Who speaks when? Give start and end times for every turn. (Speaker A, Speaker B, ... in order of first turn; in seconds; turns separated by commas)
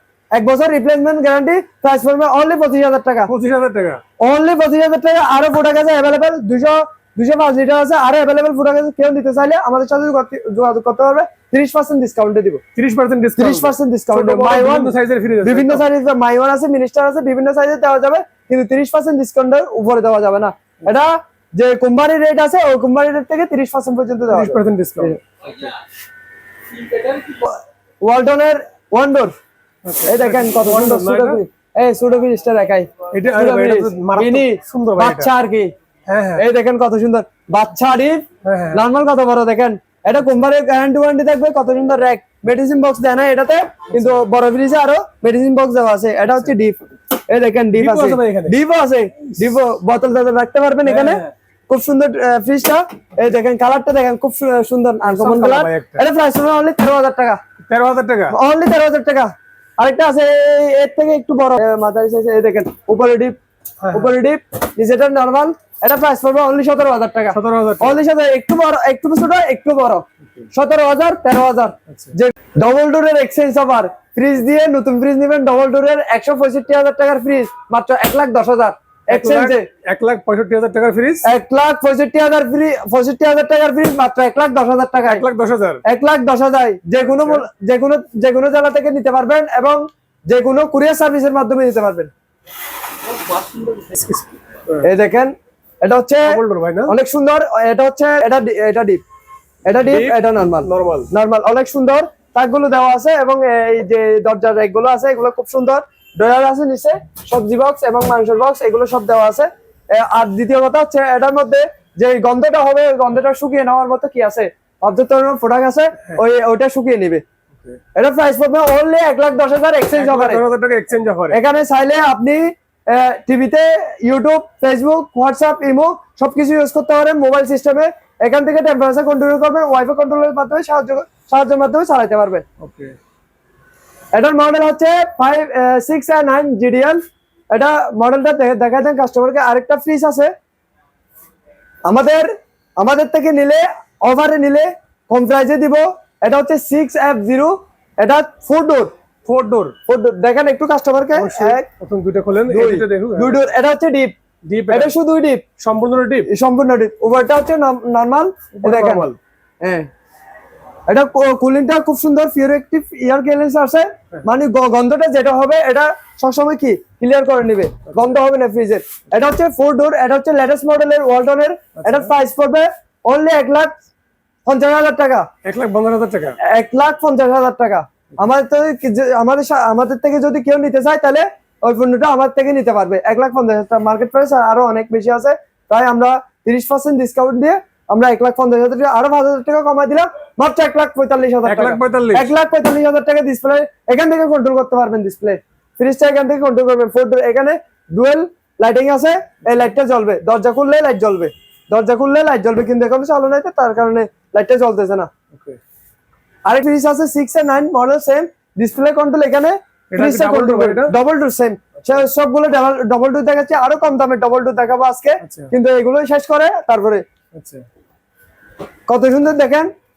Speaker A: 0.3-3.3, Speaker B: 3.3-4.0, Speaker A: 4.2-12.6, Speaker B: 12.8-15.8, Speaker A: 13.4-14.9, Speaker A: 15.4-25.2, Speaker B: 24.3-25.2, Speaker A: 27.1-29.3, Speaker B: 29.8-31.4, Speaker A: 30.1-35.7, Speaker B: 33.1-35.3, Speaker B: 36.1-36.4, Speaker A: 36.4-57.4, Speaker B: 38.4-38.8, Speaker B: 43.9-44.2, Speaker B: 47.7-48.5, Speaker B: 50.8-51.3, Speaker B: 55.1-56.0, Speaker B: 57.7-58.3, Speaker A: 58.3-63.3, Speaker B: 63.8-64.1, Speaker A: 63.9-79.7, Speaker B: 67.3-68.0, Speaker B: 79.1-81.3, Speaker A: 81.2-85.2, Speaker B: 85.0-85.8, Speaker A: 85.8-92.1, Speaker B: 87.0-87.4, Speaker B: 93.7-94.8, Speaker A: 94.8-99.0, Speaker B: 96.2-96.9, Speaker A: 99.6-117.2, Speaker B: 99.8-101.1, Speaker A: 117.9-120.4, Speaker B: 119.9-121.4, Speaker A: 121.3-132.4, Speaker B: 132.6-132.9, Speaker A: 134.1-140.3, Speaker A: 141.8-148.9, Speaker B: 149.2-149.8, Speaker A: 149.8-151.7, Speaker B: 151.1-153.5, Speaker A: 152.5-154.1, Speaker B: 154.4-154.9, Speaker A: 154.7-155.4, Speaker B: 155.6-156.3, Speaker A: 156.3-159.1, Speaker B: 158.6-159.2, Speaker A: 159.6-159.9, Speaker A: 160.9-173.7, Speaker B: 171.8-172.1, Speaker A: 174.4-175.3, Speaker B: 175.4-176.4, Speaker A: 176.4-205.1, Speaker B: 191.4-192.3, Speaker B: 205.3-205.6, Speaker A: 206.4-217.0, Speaker B: 209.9-210.9, Speaker B: 215.2-215.5, Speaker B: 217.3-217.6, Speaker A: 218.9-219.7